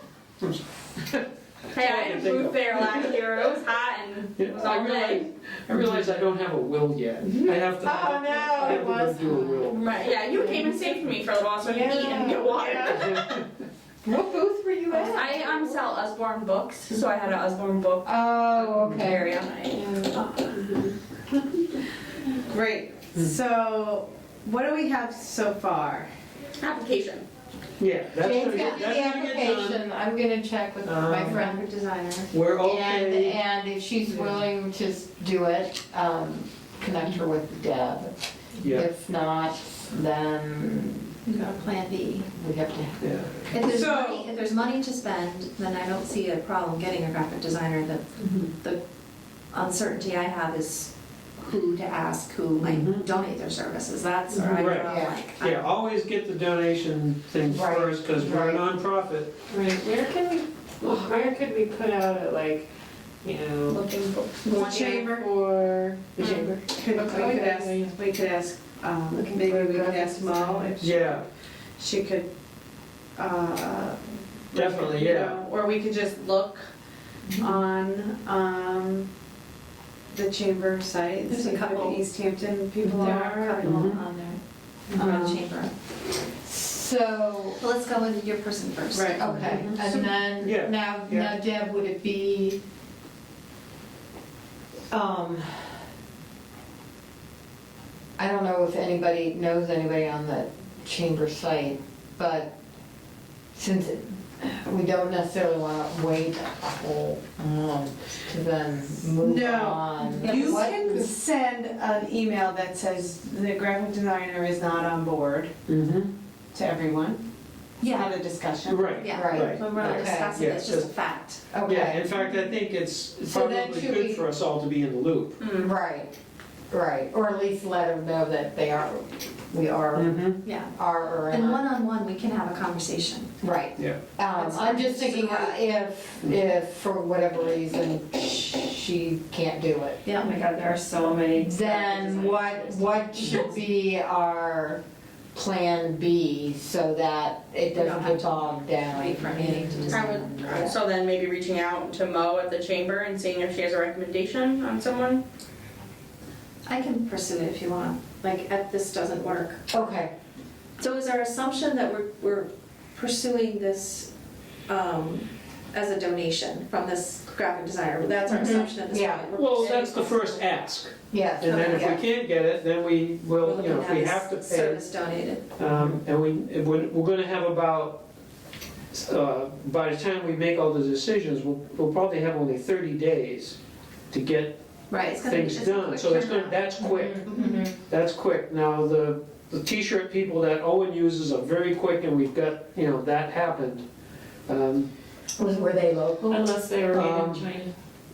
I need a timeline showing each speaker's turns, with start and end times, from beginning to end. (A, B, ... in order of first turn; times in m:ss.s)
0:00.4-0:03.2 A
0:01.7-0:05.3 B
0:04.4-0:09.8 A
0:07.2-0:10.7 C
0:09.7-0:13.2 B
0:11.6-0:13.1 C
0:12.6-0:13.4 A
0:14.0-0:15.8 C
0:14.9-0:19.8 B
0:18.0-0:19.3 C
0:19.9-0:20.9 D
0:22.5-0:26.1 E
0:23.1-0:23.4 A
0:26.6-0:27.2 B
0:27.8-0:29.8 A
0:28.2-0:31.6 C
0:30.8-0:31.4 A
0:31.3-0:32.3 F
0:32.3-0:33.4 A
0:32.6-0:41.2 C
0:34.1-0:34.4 A
0:38.6-0:38.9 A
0:41.3-0:42.3 F
0:42.3-0:43.7 C
0:43.0-0:44.1 A
0:43.5-0:48.1 F
0:43.8-0:44.2 E
0:49.5-0:55.6 F
0:52.7-0:53.0 A
0:54.5-0:59.4 A
0:54.8-0:55.2 C
0:57.5-0:58.6 C
0:59.5-1:02.6 D
1:00.8-1:01.4 C
1:03.2-1:03.8 D
1:03.7-1:04.7 B
1:04.4-1:05.3 E
1:04.6-1:07.9 D
1:06.2-1:06.6 B
1:06.7-1:11.1 E
1:07.3-1:07.9 A
1:09.2-1:10.7 D
1:10.8-1:11.3 A
1:11.8-1:12.3 E
1:13.2-1:14.0 E
1:14.5-1:15.5 A
1:14.5-1:16.7 E
1:17.3-1:17.6 F
1:17.4-1:19.1 E
1:20.1-1:23.5 E
1:21.3-1:22.0 F
1:23.0-1:24.4 F
1:23.1-1:24.0 A
1:24.9-1:25.7 F
1:24.9-1:25.4 E
1:26.4-1:27.6 C
1:27.6-1:29.7 F
1:28.9-1:29.2 E
1:29.1-1:32.6 C
1:29.3-1:31.4 A
1:34.9-1:35.8 C
1:38.2-1:42.5 C
1:43.6-1:51.0 C
1:49.2-1:55.5 E
1:50.1-1:51.1 F
1:55.7-1:56.1 A
1:56.5-1:57.2 E
1:57.8-1:58.1 F
1:58.0-1:58.8 E
1:58.6-2:00.9 A
1:58.9-2:01.5 F
1:59.1-2:00.4 C
2:01.5-2:02.2 C
2:01.6-2:05.4 A
2:03.3-2:04.2 C
2:05.4-2:05.7 B
2:05.6-2:06.1 C
2:06.7-2:11.6 C
2:09.9-2:10.4 A
2:10.4-2:10.7 F
2:11.3-2:13.3 F
2:13.4-2:20.0 C
2:14.3-2:15.6 F
2:20.0-2:20.3 F
2:20.2-2:22.8 D
2:21.4-2:24.8 C
2:23.2-2:23.4 A
2:25.3-2:30.7 C
2:27.7-2:30.6 F
2:29.9-2:35.2 B
2:36.7-2:39.6 F
2:39.7-2:40.1 C
2:40.8-2:44.1 F
2:44.7-2:50.4 F
2:48.3-2:49.3 C
2:49.4-2:54.8 A
2:51.1-2:52.0 C
2:51.4-2:52.0 F
2:53.4-2:55.5 F
2:55.6-2:58.0 A
2:58.9-3:03.6 A
3:04.1-3:04.6 A
3:04.9-3:07.6 F
3:05.1-3:07.2 A
3:06.8-3:07.8 C
3:07.9-3:13.8 A
3:14.5-3:14.9 A
3:15.4-3:16.6 C
3:16.3-3:17.7 D
3:16.9-3:17.5 A